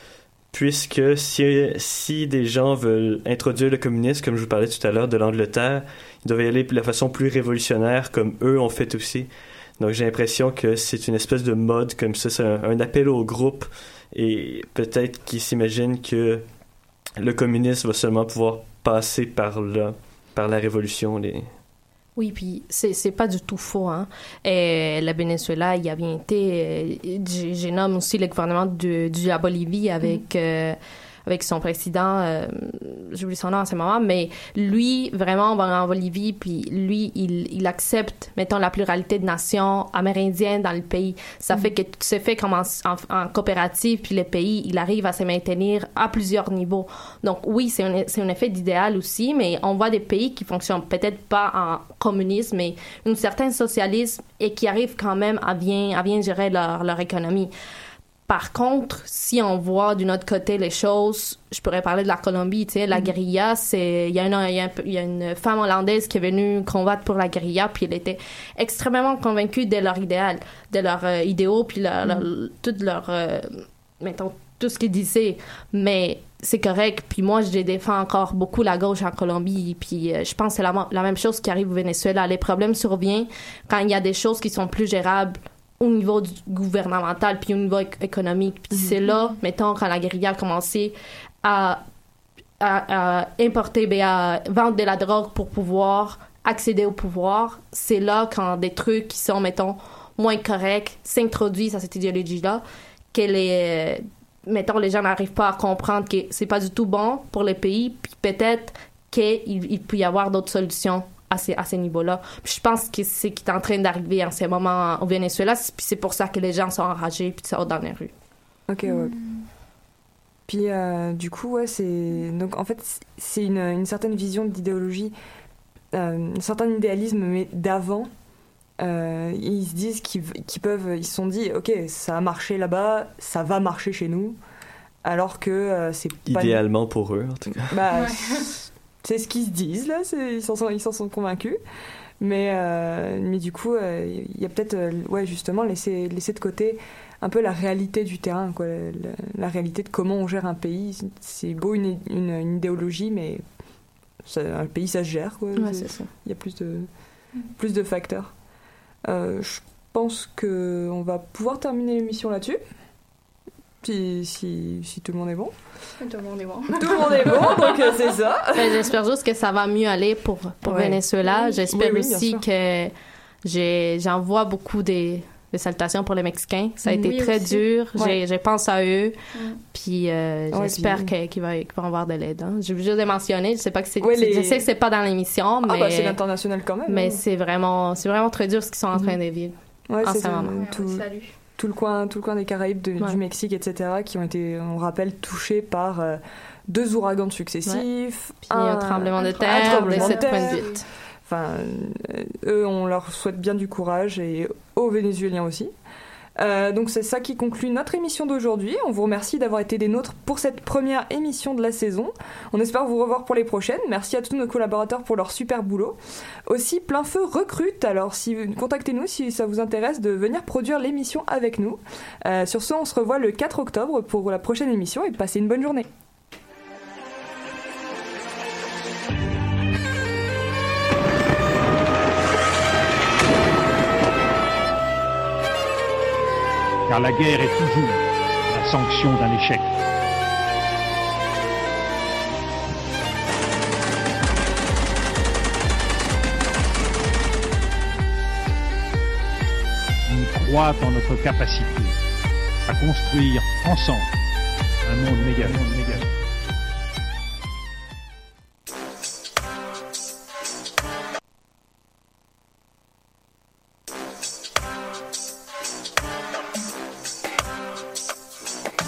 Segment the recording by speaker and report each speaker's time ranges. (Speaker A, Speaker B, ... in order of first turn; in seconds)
Speaker A: 0.5-16.4, 17.2-21.5, 136.3-137.7
Speaker B: 22.2-57.5, 58.3-91.8, 92.6-118.1, 155.6-156.1, 168.6-172.9, 173.4-179.2, 179.7-186.2, 186.9-190.6, 198.5-200.8
Speaker C: 118.7-119.2, 120.5-125.1, 125.9-128.1, 128.8-134.4, 135.1-136.6, 137.7-138.5, 139.0-141.6, 142.2-153.4, 154.2-156.9, 157.5-158.3, 159.1-162.6, 163.8-165.5, 166.8-168.9, 170.6-172.4, 180.5-181.1, 184.0-184.7, 185.6-187.2, 189.9-200.7, 201.2-205.7, 206.4-225.9
Speaker D: 118.9-119.2, 137.9-138.5, 166.0-167.8, 176.9-177.6, 190.5-191.3, 199.2-200.8
Speaker E: 236.9-239.7, 250.1-251.9, 252.7-254.1, 254.8-256.1